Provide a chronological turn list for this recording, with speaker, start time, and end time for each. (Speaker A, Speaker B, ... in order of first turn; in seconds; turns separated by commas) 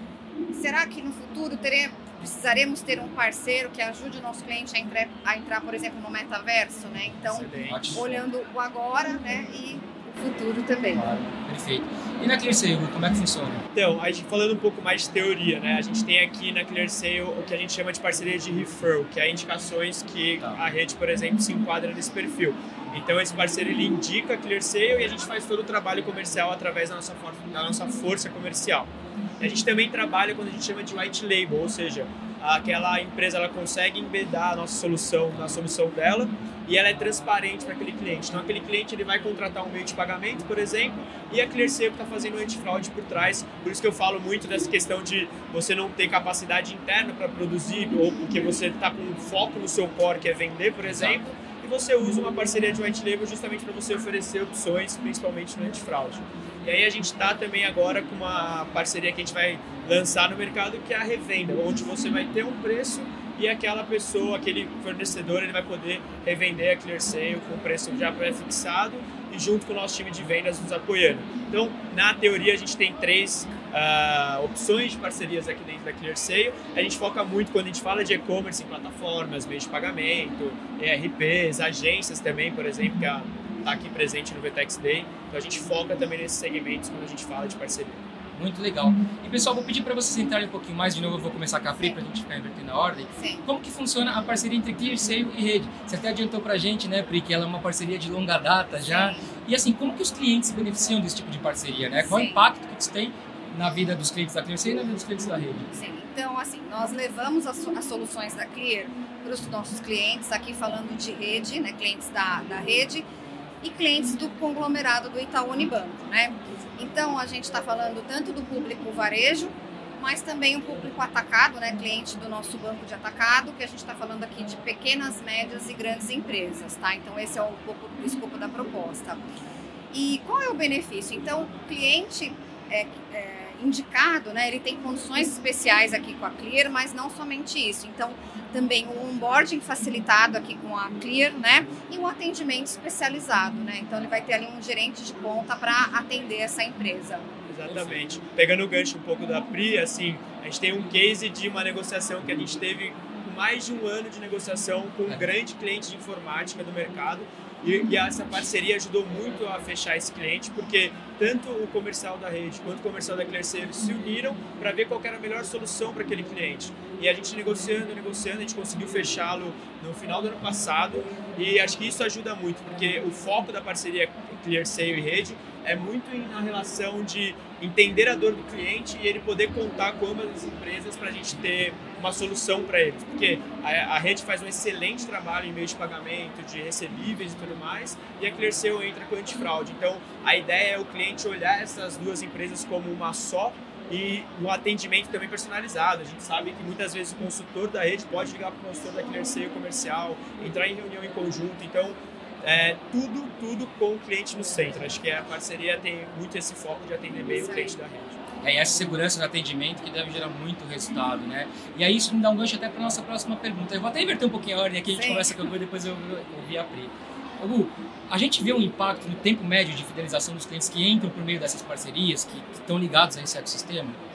Speaker A: 0.5-11.1, Speaker B: 7.2-8.1, Speaker C: 7.7-8.2, Speaker C: 10.9-13.6, Speaker B: 13.7-88.0, Speaker C: 50.8-51.2, Speaker C: 88.3-105.7, Speaker A: 93.1-93.4, Speaker A: 98.8-99.3, Speaker A: 102.0-102.5, Speaker A: 105.7-113.1, Speaker A: 113.6-129.2, Speaker A: 129.9-147.3, Speaker B: 147.5-208.2, Speaker C: 147.6-148.0, Speaker A: 207.3-207.8, Speaker C: 208.4-224.0, Speaker A: 214.9-215.4